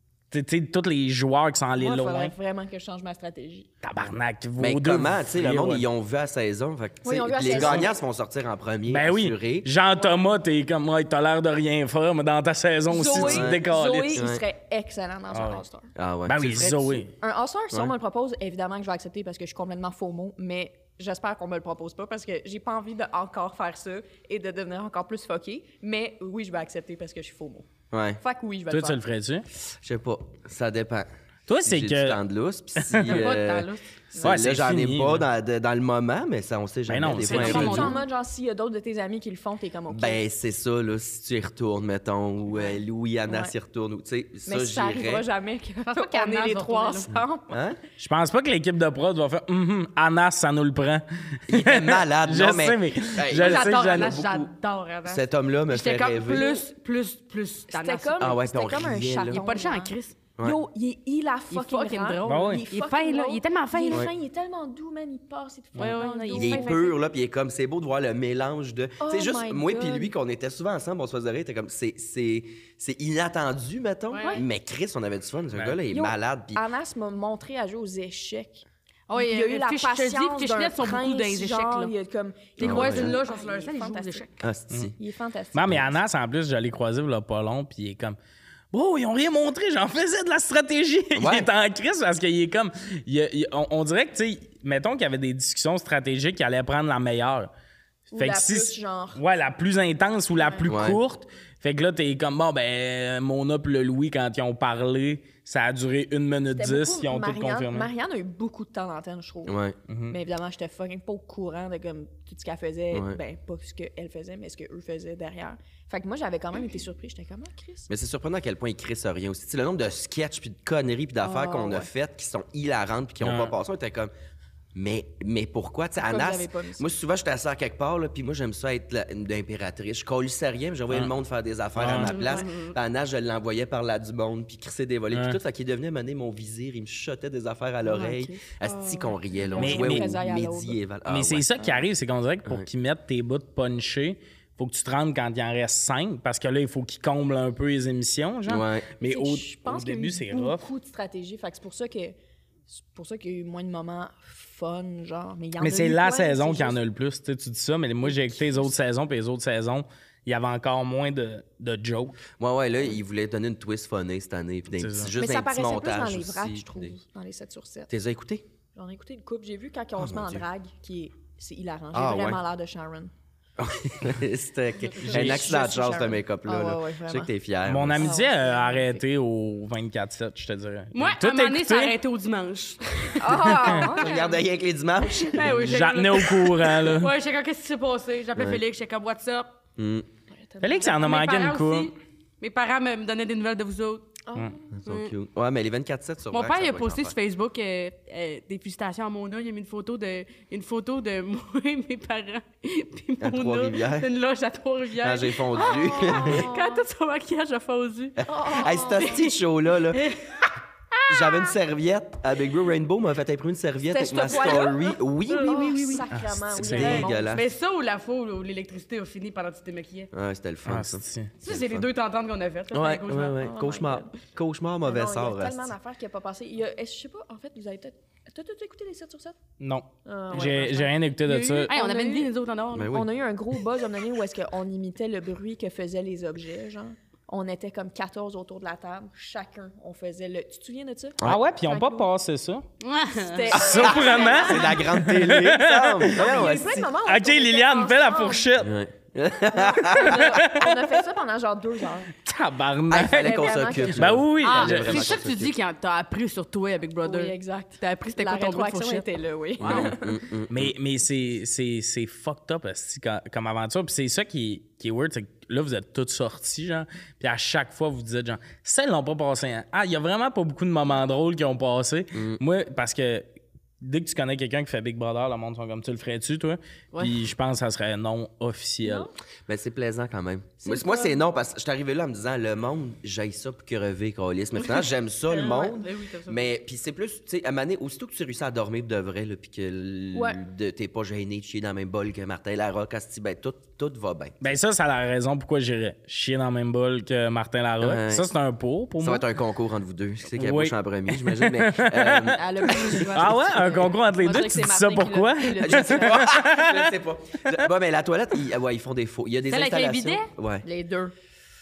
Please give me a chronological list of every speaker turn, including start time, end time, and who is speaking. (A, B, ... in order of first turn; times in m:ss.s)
0:00.3-0:02.3 A
0:01.8-0:03.7 B
0:03.8-0:05.8 A
0:04.6-0:09.7 C
0:07.0-0:07.9 B
0:07.5-0:07.8 A
0:08.9-0:14.2 A
0:09.9-0:10.2 B
0:12.9-0:15.9 B
0:13.1-0:13.6 C
0:14.1-0:14.4 C
0:15.3-0:15.6 A
0:16.0-0:17.0 C
0:16.2-0:17.1 A
0:17.2-0:27.7 B
0:27.9-0:28.2 C
0:28.2-0:29.0 B
0:28.7-0:29.5 A
0:29.7-0:31.1 C
0:31.5-0:32.2 A
0:31.6-0:38.0 C
0:32.8-0:33.2 A
0:33.0-0:33.8 D
0:34.2-0:35.2 A
0:36.9-0:37.9 A
0:37.3-0:37.9 D
0:37.3-0:40.2 B
0:39.9-0:45.2 C
0:42.5-0:43.5 B
0:44.4-0:47.6 B
0:45.8-0:47.1 D
0:47.5-0:47.8 C
0:48.0-0:54.2 A
0:51.5-0:54.5 C
0:53.3-0:58.4 D
0:55.0-0:56.5 C
0:56.3-0:56.6 B
0:57.7-1:07.0 B
0:58.2-0:59.4 C
0:59.3-1:00.2 D
1:01.5-1:04.1 D
1:02.2-1:02.6 A
1:05.8-1:06.9 D
1:06.3-1:16.6 C
1:09.0-1:10.1 B
1:14.1-1:14.4 D
1:15.9-1:24.3 B
1:19.1-1:21.9 D
1:22.6-1:24.4 D
1:22.6-1:23.2 C
1:24.4-1:24.9 C
1:25.0-1:26.0 B
1:25.5-1:28.2 A
1:28.7-1:37.5 A
1:31.1-1:31.5 C
1:38.1-1:39.2 B
1:38.1-1:47.9 A
1:40.7-1:41.0 C
1:46.5-1:49.6 B
1:49.4-1:49.8 C
1:49.9-1:50.1 A
1:50.1-1:57.9 B
1:52.9-1:53.2 C
1:57.9-2:04.1 C
2:01.2-2:01.9 B
2:03.2-2:03.5 A
2:04.7-2:21.5 C
2:06.0-2:06.8 B
2:11.8-2:12.2 A
2:12.0-2:12.7 D
2:12.1-2:12.6 B
2:15.1-2:15.4 A
2:17.9-2:20.8 B
2:19.6-2:20.1 A
2:21.1-2:30.7 A
2:28.5-2:28.9 C
2:29.0-2:32.2 B
2:32.7-2:36.8 B
2:35.6-2:42.2 A
2:38.0-2:38.7 B
2:42.4-2:46.9 C
2:44.8-2:45.1 A
2:45.2-2:47.9 B
2:47.9-2:48.4 C
2:48.7-2:53.1 B
2:50.0-2:50.4 C
2:51.9-2:52.4 C
2:53.6-2:58.1 C
2:55.0-2:57.3 B
2:57.6-3:01.9 A
2:58.0-2:59.0 B
3:00.9-3:04.3 D
3:03.2-3:04.4 B
3:03.4-3:03.8 A
3:03.8-3:05.7 C
3:05.2-3:09.5 D
3:05.5-3:07.1 A
3:05.6-3:06.0 B
3:08.4-3:08.6 C
3:09.8-3:10.1 C
3:10.3-3:11.0 B
3:10.6-3:11.9 A
3:10.8-3:14.3 D
3:14.3-3:14.7 B
3:14.8-3:17.1 C
3:14.8-3:15.1 D
3:16.3-3:29.3 D
3:23.2-3:24.1 C
3:25.0-3:26.5 C
3:25.5-3:26.8 B
3:28.2-3:30.1 C
3:28.3-3:29.2 B
3:29.9-3:31.5 D
3:31.1-3:37.5 C
3:33.8-3:37.4 B
3:35.3-3:36.0 D
3:36.1-3:37.0 A
3:36.7-3:40.1 D
3:40.1-3:41.9 C
3:40.6-3:41.3 A
3:41.4-3:43.5 D
3:42.7-3:45.7 C
3:43.3-3:44.1 B
3:44.8-3:49.4 B
3:49.6-3:51.7 A
3:50.0-3:51.0 B
3:51.2-3:53.0 D
3:51.6-3:52.3 B
3:52.7-3:53.1 C
3:52.9-4:02.1 B
4:01.2-4:02.6 A
4:02.8-4:04.3 D
4:03.1-4:04.8 B
4:03.5-4:06.4 A
4:03.5-4:06.9 C
4:06.1-4:08.5 B
4:07.0-4:08.7 A
4:08.6-4:10.4 C
4:09.5-4:12.1 B
4:10.0-4:10.8 A
4:12.2-4:15.2 A
4:12.9-4:15.5 C
4:13.0-4:14.2 B
4:14.4-4:19.0 D
4:17.0-4:20.2 B
4:19.6-4:20.7 C
4:19.6-4:19.9 D
4:20.5-4:33.3 A
4:32.1-4:32.4 C
4:33.8-4:39.1 A
4:36.9-4:37.2 D
4:38.8-4:39.1 B
4:39.5-4:54.4 C
4:40.6-4:41.2 B
4:45.3-4:46.5 D
4:50.1-4:50.4 B
4:54.4-4:59.2 A
4:57.8-4:58.3 C
4:59.0-5:03.4 C
5:00.4-5:02.3 A
5:02.3-5:06.3 B
5:02.9-5:06.9 A
5:05.6-5:10.6 C
5:09.5-5:10.3 D
5:10.6-5:11.1 B